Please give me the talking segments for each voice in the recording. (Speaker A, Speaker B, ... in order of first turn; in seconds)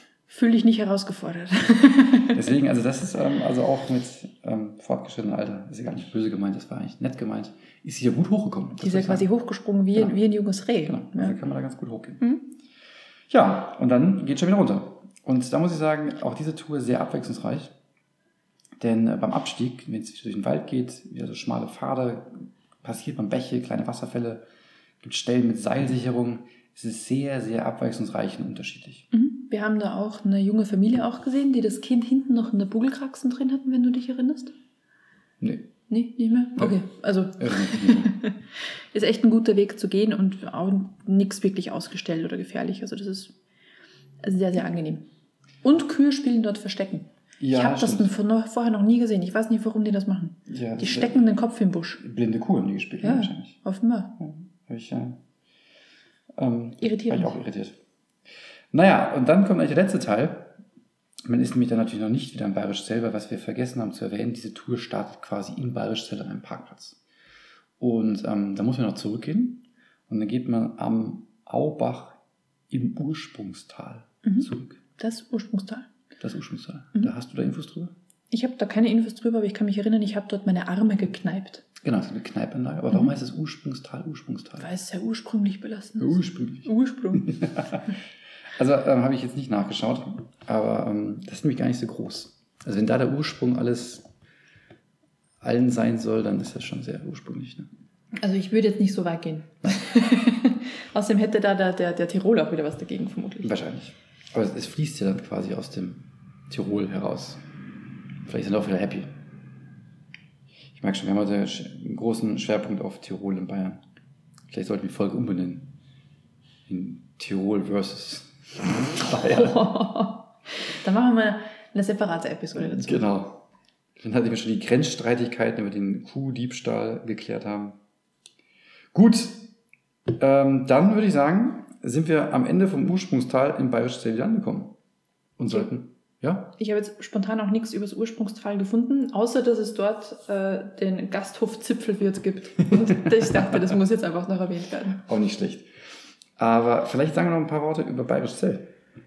Speaker A: 0.3-2.5, 8.8-11.3, 12.2-12.5, 29.1-34.5, 35.9-43.3, 44.2-45.0, 45.6-52.0, 53.0-54.1, 56.8-57.4, 74.2-75.9, 78.3-81.7, 84.6-87.5, 98.2-103.5, 119.1-123.1, 136.6-145.0
Speaker B: 2.3-9.2, 10.8-12.2, 13.3-17.7, 18.8-24.4, 25.0-29.1, 35.4-35.7, 37.4-38.2, 47.4-48.1, 50.5-51.2, 52.0-53.6, 54.2-55.2, 56.3-57.8, 58.7-60.6, 61.2-67.0, 67.8-72.2, 72.7-74.8, 76.2-77.9, 81.8-84.7, 86.0-87.8, 88.5-94.0, 95.4-97.7, 103.4-107.4, 108.2-109.1, 110.7-113.8, 114.5-115.7, 116.7-119.7, 122.5-123.4, 124.0-127.8, 128.9-129.5, 130.1-134.8, 135.4-136.5, 143.1-143.5, 145.0-145.7, 146.4-148.7